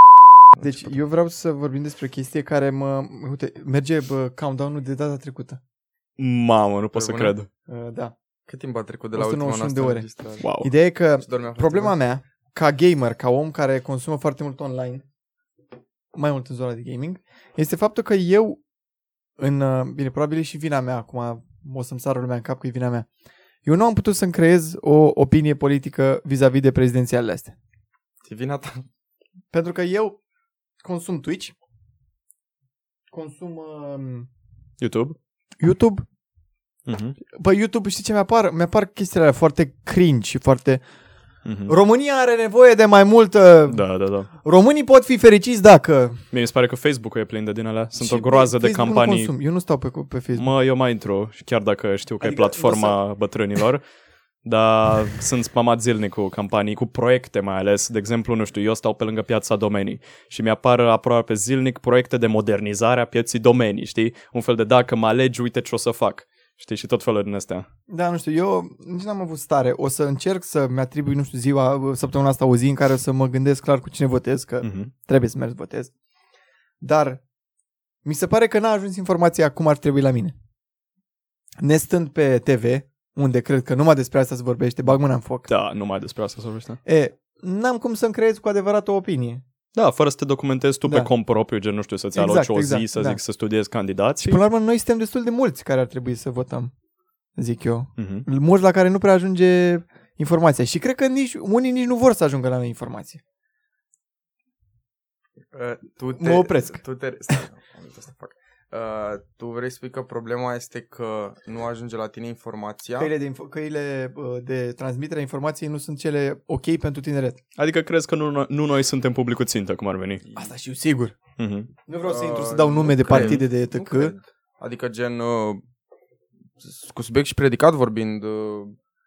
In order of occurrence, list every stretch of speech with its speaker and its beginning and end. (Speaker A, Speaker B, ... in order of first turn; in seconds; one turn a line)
Speaker A: 0.6-5.6
Speaker B: 6.2-7.5
Speaker C: 6.9-7.3
Speaker A: 7.7-8.1
Speaker C: 8.5-10.4
Speaker A: 9.1-10.1
Speaker B: 10.4-10.7
Speaker A: 10.6-15.0
Speaker C: 11.2-12.0
Speaker A: 16.1-18.6
Speaker A: 19.4-23.1
Speaker A: 23.6-27.5
Speaker C: 28.2-28.8
Speaker A: 29.5-30.2
Speaker A: 30.8-31.6
Speaker A: 33.1-34.3
Speaker B: 34.8-35.2
Speaker A: 35.6-36.0
Speaker B: 36.9-37.1
Speaker A: 37.3-40.8
Speaker B: 41.4-41.7
Speaker A: 41.6-46.2
Speaker B: 43.7-44.3
Speaker B: 46.3-49.3
Speaker A: 48.0-50.5
Speaker B: 50.3-53.8
Speaker A: 52.2-53.0
Speaker B: 54.4-67.7
Speaker A: 67.9-75.9
Speaker B: 74.6-74.9
Speaker A: 76.8-77.2
Speaker A: 78.0-80.3
Speaker A: 81.6-85.5
Speaker B: 85.5-86.8
Speaker A: 86.8-89.4
Speaker B: 89.7-94.4
Speaker A: 90.8-91.1
Speaker A: 92.1-93.2
Speaker A: 94.2-96.7
Speaker A: 97.3-103.2
Speaker B: 98.0-98.2
Speaker C: 105.5-113.1
Speaker A: 106.2-106.8
Speaker A: 113.0-117.4
Speaker B: 117.5-120.2
Speaker A: 120.3-121.2
Speaker B: 121.4-121.7
Speaker A: 121.9-124.1
Speaker C: 122.0-125.6
Speaker B: 123.1-123.4
Speaker C: 126.6-128.8